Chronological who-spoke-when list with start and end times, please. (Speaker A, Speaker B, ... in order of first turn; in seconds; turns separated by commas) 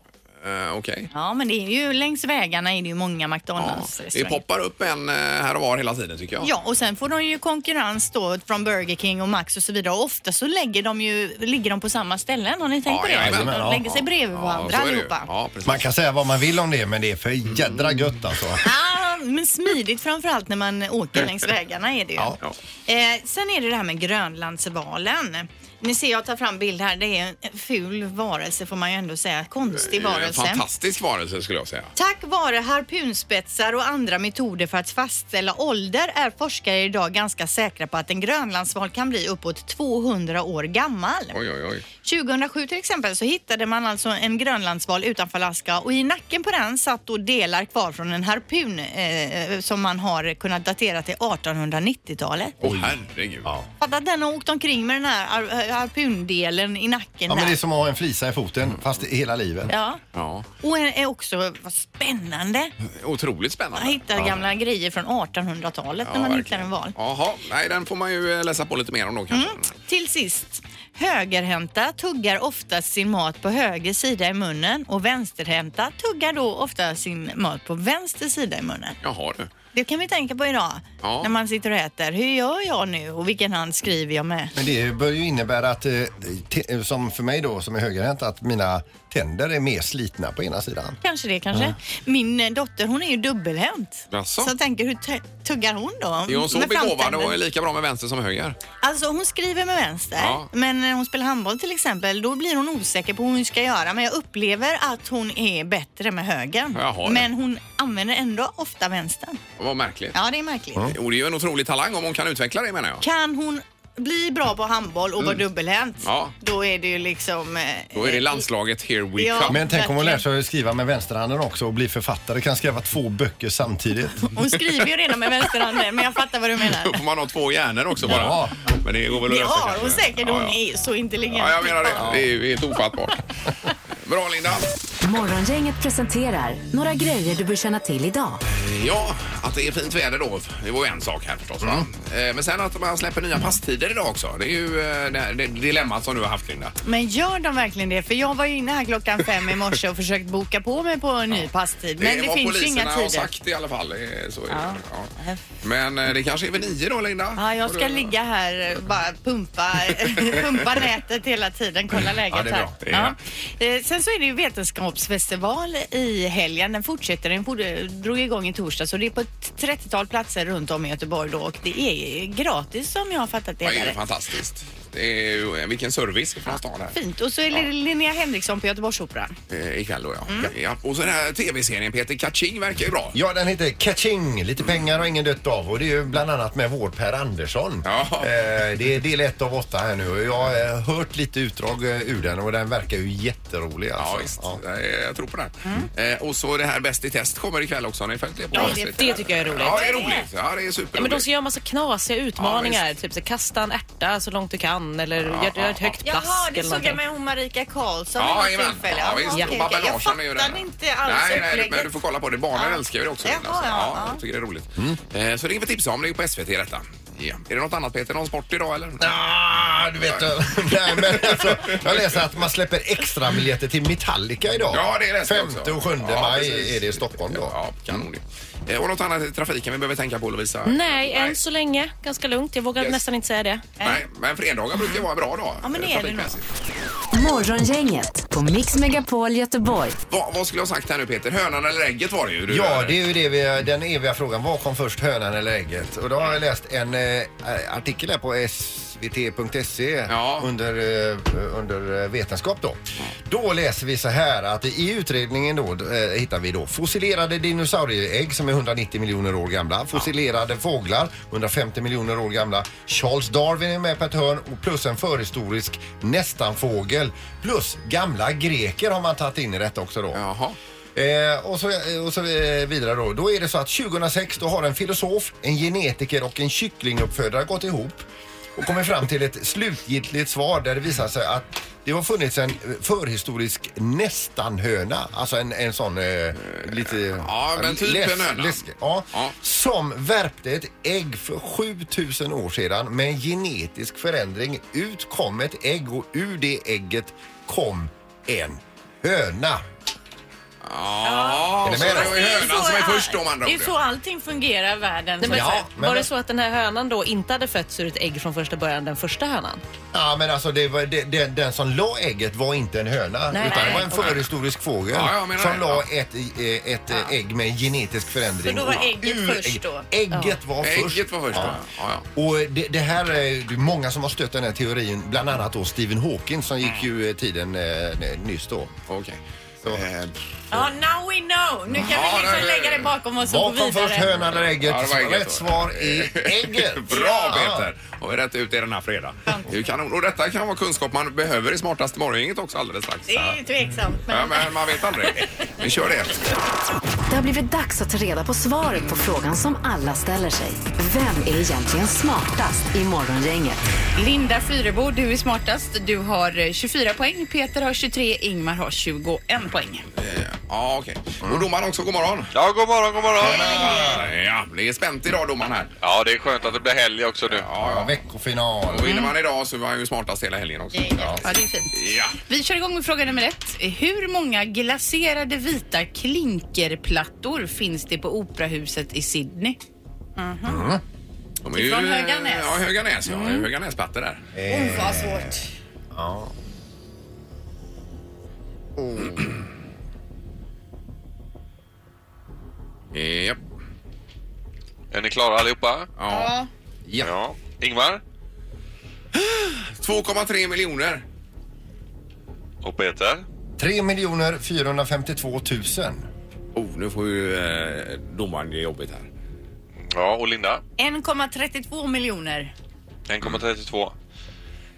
Speaker A: 0.4-1.1, Speaker B: 1.1-4.4, Speaker A: 3.6-6.5, Speaker B: 6.4-15.3, Speaker A: 12.8-13.8, Speaker C: 13.2-13.9, Speaker A: 14.3-15.9, Speaker C: 15.6-18.6, Speaker B: 18.6-30.6, Speaker A: 29.8-31.9, Speaker B: 31.9-41.3, Speaker A: 41.3-41.8, Speaker B: 42.0-52.5, Speaker A: 52.6-53.5, Speaker C: 52.6-52.9, Speaker B: 53.8-57.6, Speaker C: 57.3-59.7, Speaker B: 59.7-60.0, Speaker A: 60.1-60.5, Speaker B: 60.6-62.7, Speaker A: 62.9-64.0, Speaker B: 63.8-66.9, Speaker A: 66.0-69.7, Speaker B: 69.3-79.0, Speaker A: 79.0-79.5, Speaker B: 79.7-84.5, Speaker A: 81.0-81.3, Speaker C: 84.5-91.0, Speaker B: 91.0-97.4, Speaker A: 94.1-94.5, Speaker A: 96.3-98.6, Speaker B: 98.8-109.4, Speaker A: 100.2-100.5, Speaker A: 106.7-107.3, Speaker A: 109.6-110.1, Speaker B: 110.1-110.9, Speaker A: 110.9-113.0, Speaker B: 113.0-118.4, Speaker A: 116.0-116.3, Speaker A: 117.9-119.6, Speaker B: 119.2-120.2, Speaker C: 119.5-124.2, Speaker B: 124.3-127.0, Speaker A: 126.8-130.6, Speaker C: 128.0-128.5, Speaker B: 129.2-132.1, Speaker A: 131.3-133.2, Speaker A: 134.0-134.7, Speaker D: 135.0-138.4, Speaker A: 138.5-146.7, Speaker B: 146.8-153.3, Speaker A: 152.0-158.1, Speaker B: 154.5-155.4, Speaker B: 157.3-174.0, Speaker C: 162.3-162.8, Speaker A: 162.8-163.1, Speaker A: 173.6-176.9, Speaker B: 176.9-179.3, Speaker A: 179.5-183.2, Speaker C: 183.1-194.6, Speaker A: 187.8-188.4, Speaker A: 194.0-201.3, Speaker E: 198.5-199.9, Speaker B: 198.5-200.2, Speaker E: 200.9-207.0, Speaker A: 202.4-202.8, Speaker A: 205.2-206.0, Speaker B: 206.0-211.9, Speaker A: 208.2-219.1, Speaker B: 212.5-214.2, Speaker C: 219.0-228.1, Speaker A: 220.0-220.3, Speaker A: 220.8-222.2, Speaker A: 224.7-231.4, Speaker E: 230.7-233.6, Speaker A: 232.8-233.0, Speaker A: 233.8-236.4, Speaker B: 235.6-236.3, Speaker D: 237.1-240.0, Speaker A: 240.1-242.9, Speaker C: 242.5-270.2, Speaker A: 250.1-250.5, Speaker A: 270.1-270.6, Speaker C: 270.9-278.0, Speaker C: 278.6-299.6, Speaker A: 286.4-289.3, Speaker A: 300.6-303.8, Speaker B: 301.0-305.7, Speaker C: 301.6-302.2, Speaker E: 305.2-309.6, Speaker C: 305.3-306.1, Speaker C: 309.9-321.6, Speaker E: 313.3-314.0, Speaker B: 313.4-313.9, Speaker A: 313.9-314.2, Speaker A: 314.9-315.8, Speaker B: 318.4-319.9, Speaker A: 320.6-322.1, Speaker C: 322.1-328.7, Speaker A: 328.9-330.7, Speaker B: 330.5-334.1, Speaker A: 331.7-332.9, Speaker C: 333.2-337.7, Speaker A: 334.3-343.1, Speaker B: 343.1-344.5, Speaker A: 344.1-346.3, Speaker D: 347.1-353.6, Speaker F: 354.0-359.8, Speaker A: 359.9-362.3, Speaker G: 362.3-363.6, Speaker C: 363.2-364.1, Speaker A: 363.4-365.7, Speaker G: 365.8-367.5, Speaker A: 367.3-368.0, Speaker C: 367.6-369.1, Speaker A: 368.7-372.2, Speaker C: 371.0-371.2, Speaker F: 371.2-371.7, Speaker F: 372.3-379.6, Speaker B: 380.2-380.6, Speaker C: 380.4-380.8, Speaker A: 381.4-384.2, Speaker B: 381.5-382.6, Speaker C: 384.3-386.3, Speaker B: 384.5-385.3, Speaker F: 384.8-385.1, Speaker C: 388.8-389.3, Speaker A: 389.0-389.3, Speaker A: 392.9-393.4, Speaker G: 394.9-395.9, Speaker A: 396.0-396.3, Speaker G: 397.0-398.0, Speaker A: 399.1-401.0, Speaker G: 402.6-403.2, Speaker C: 403.6-406.1, Speaker A: 406.5-409.1, Speaker G: 409.8-410.6, Speaker B: 410.8-412.5, Speaker G: 413.1-413.9